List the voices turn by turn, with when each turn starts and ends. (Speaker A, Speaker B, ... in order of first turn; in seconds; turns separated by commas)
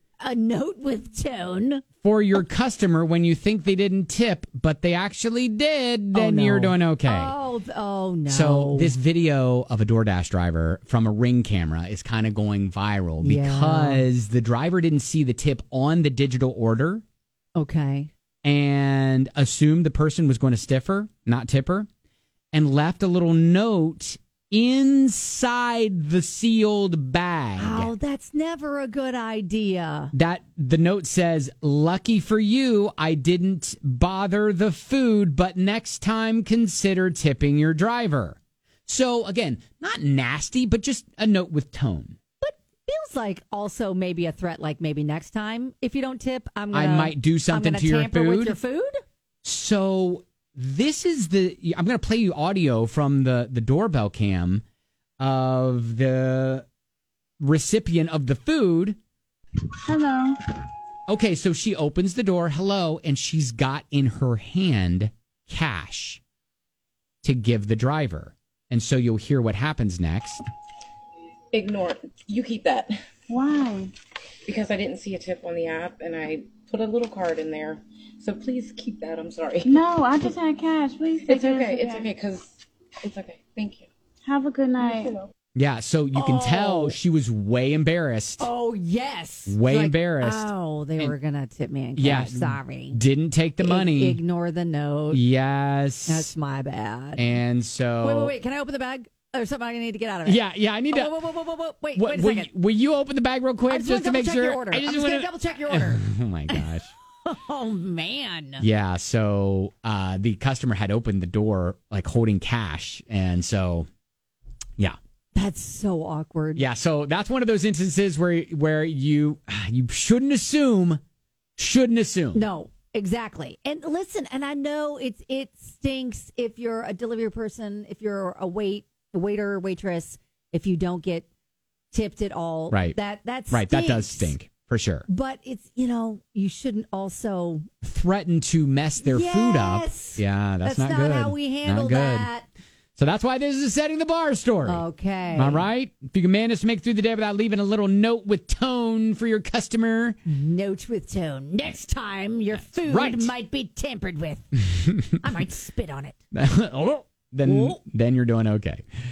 Speaker A: 0.2-1.9, Speaker B: 2.0-7.3, Speaker A: 6.1-8.9, Speaker B: 8.3-17.0, Speaker A: 13.2-14.1, Speaker A: 17.6-18.1, Speaker B: 18.4-21.9, Speaker B: 22.5-27.9, Speaker A: 27.6-30.1, Speaker B: 30.1-42.2, Speaker A: 42.4-49.0, Speaker B: 46.7-48.6, Speaker B: 49.4-54.6, Speaker B: 55.2-56.7, Speaker B: 57.4-59.0, Speaker C: 59.8-60.4, Speaker B: 61.1-66.2, Speaker B: 67.2-70.4, Speaker D: 71.5-72.9, Speaker C: 73.3-73.9, Speaker D: 74.5-79.8, Speaker C: 79.6-82.1, Speaker D: 81.3-82.5, Speaker D: 83.0-83.9, Speaker C: 84.2-85.2, Speaker D: 84.8-85.2, Speaker B: 85.6-88.5, Speaker A: 86.1-87.0, Speaker A: 88.4-93.0, Speaker B: 89.5-91.2, Speaker B: 92.0-94.2, Speaker A: 93.6-95.2, Speaker B: 95.1-96.3, Speaker A: 96.1-97.3, Speaker B: 97.2-98.3, Speaker A: 98.0-102.5, Speaker B: 100.3-101.2, Speaker B: 102.0-106.9, Speaker A: 103.7-108.7, Speaker B: 108.6-113.9, Speaker A: 115.3-116.7, Speaker B: 116.6-121.0, Speaker B: 121.6-122.4, Speaker A: 122.3-131.3, Speaker A: 131.9-134.4, Speaker B: 132.7-133.0, Speaker B: 133.5-135.1, Speaker A: 135.1-137.7, Speaker B: 137.8-142.3, Speaker A: 139.0-142.5, Speaker B: 143.0-144.8, Speaker A: 144.7-145.7, Speaker B: 145.3-150.2, Speaker A: 150.3-156.2, Speaker B: 152.8-153.3, Speaker B: 156.3-158.8, Speaker A: 157.4-157.8